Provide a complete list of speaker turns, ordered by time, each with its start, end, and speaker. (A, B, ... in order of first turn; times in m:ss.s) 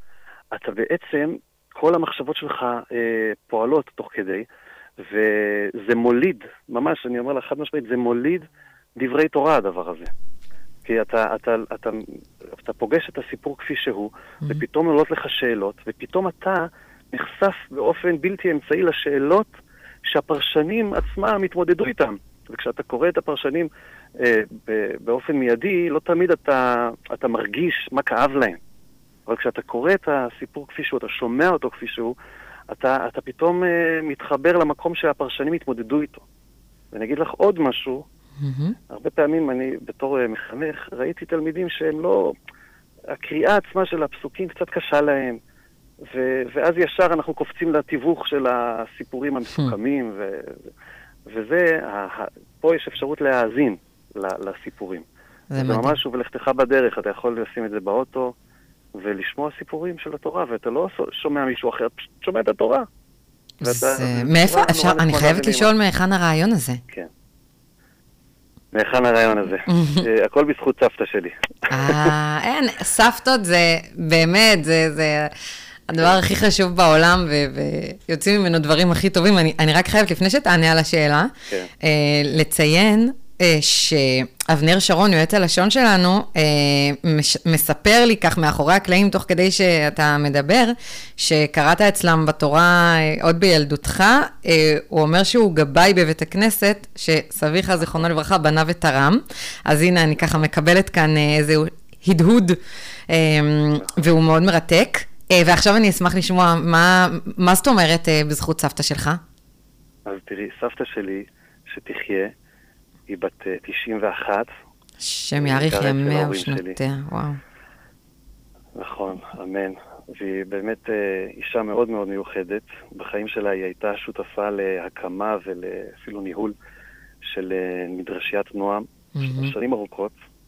0:00.5-0:04.4 A
0:05.0-0:10.1 A
0:10.8-0:19.5 A
0:20.0-0:28.6 A
0:29.3-0:32.1 A
0:32.7-0:36.2 A
0:36.9-0:38.0 A
0:38.4-0:38.8 B
0:38.9-0:42.3 A
0:43.1-0:45.4 A
0:46.1-0:50.7 A
0:51.3-0:58.3 A
0:55.5-0:56.0 B
0:59.0-1:02.8 A
1:03.6-1:05.7 A
1:03.6-1:06.8 B
1:08.7-1:12.1 A
1:09.7-1:10.0 B
1:11.7-1:15.3 B
1:15.9-1:42.6 B
1:43.1-1:49.2 B
1:50.0-1:52.3 A
1:53.1-1:54.5 A
1:55.0-1:57.4 B
1:55.4-1:56.8 A
1:58.8-2:06.5 A
2:07.2-2:10.1 A
2:09.1-2:09.5 B